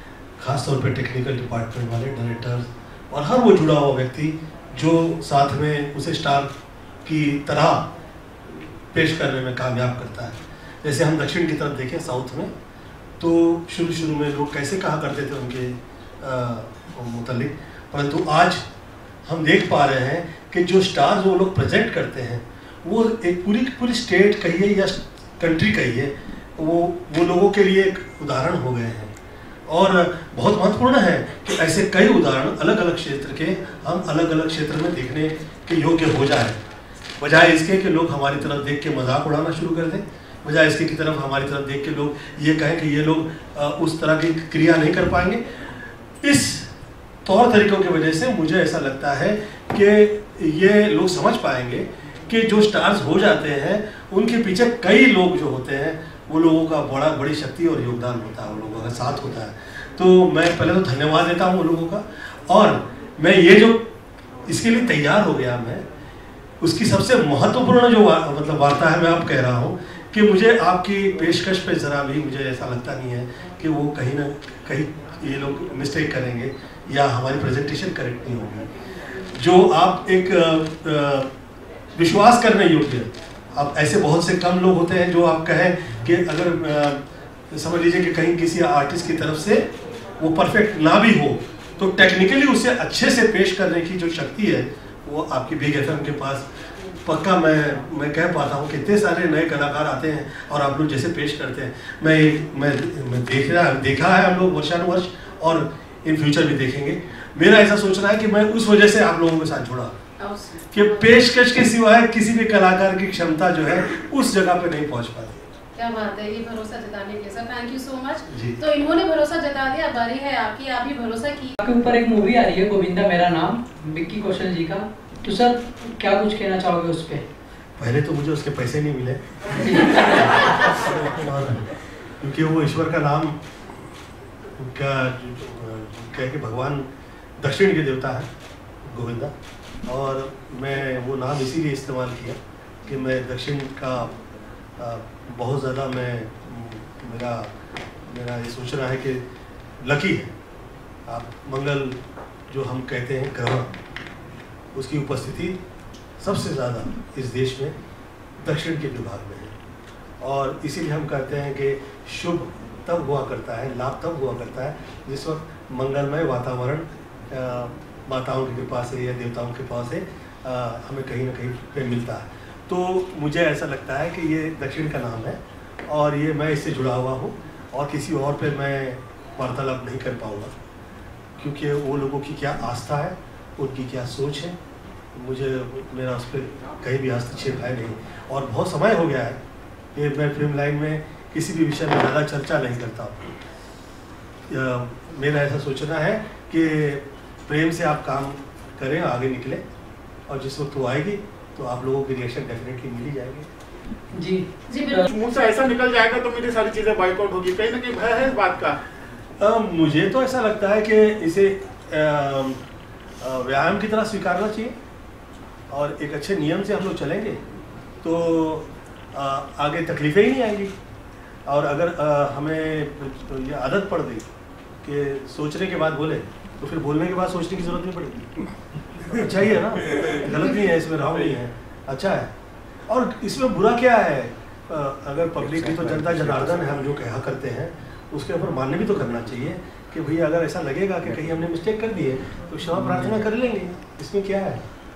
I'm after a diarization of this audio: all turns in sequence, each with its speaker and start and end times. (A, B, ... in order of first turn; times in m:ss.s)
0:00.4-0:06.5 A
0:07.0-0:07.9 A
0:08.5-0:12.5 A
0:13.2-0:18.6 A
0:19.2-0:29.1 A
0:29.7-0:36.6 A
0:37.2-0:45.7 A
0:46.2-0:46.7 A
0:47.2-1:03.9 A
1:04.4-1:05.8 A
1:06.6-1:21.3 A
1:21.9-1:29.7 A
1:30.2-1:36.4 A
1:37.0-1:49.9 A
1:50.2-1:51.0 B
1:50.7-1:55.4 A
1:55.8-2:01.6 B
1:58.3-1:58.6 A
2:01.6-2:07.2 C
2:07.8-2:13.4 A
2:09.6-2:10.1 C
2:14.6-2:18.3 A
2:18.8-2:19.3 A
2:19.9-2:24.2 A
2:24.8-2:27.5 A
2:28.1-2:29.2 A
2:29.8-2:30.3 A
2:31.1-2:33.7 A
2:34.7-2:35.6 A
2:36.2-2:37.8 A
2:38.4-2:39.5 A
2:40.2-3:00.5 A
3:01.4-3:04.6 A
3:05.2-3:09.4 A
3:09.9-3:13.3 A
3:14.5-3:19.6 A
3:20.3-3:23.5 A
3:24.1-3:25.0 C
3:24.7-3:25.0 B
3:25.0-3:28.8 D
3:29.4-3:32.6 A
3:33.2-3:34.8 A
3:35.7-3:37.4 A
3:38.0-3:40.7 A
3:41.5-3:44.3 A
3:44.8-3:48.4 A
3:48.9-3:52.3 A
3:52.9-4:04.6 A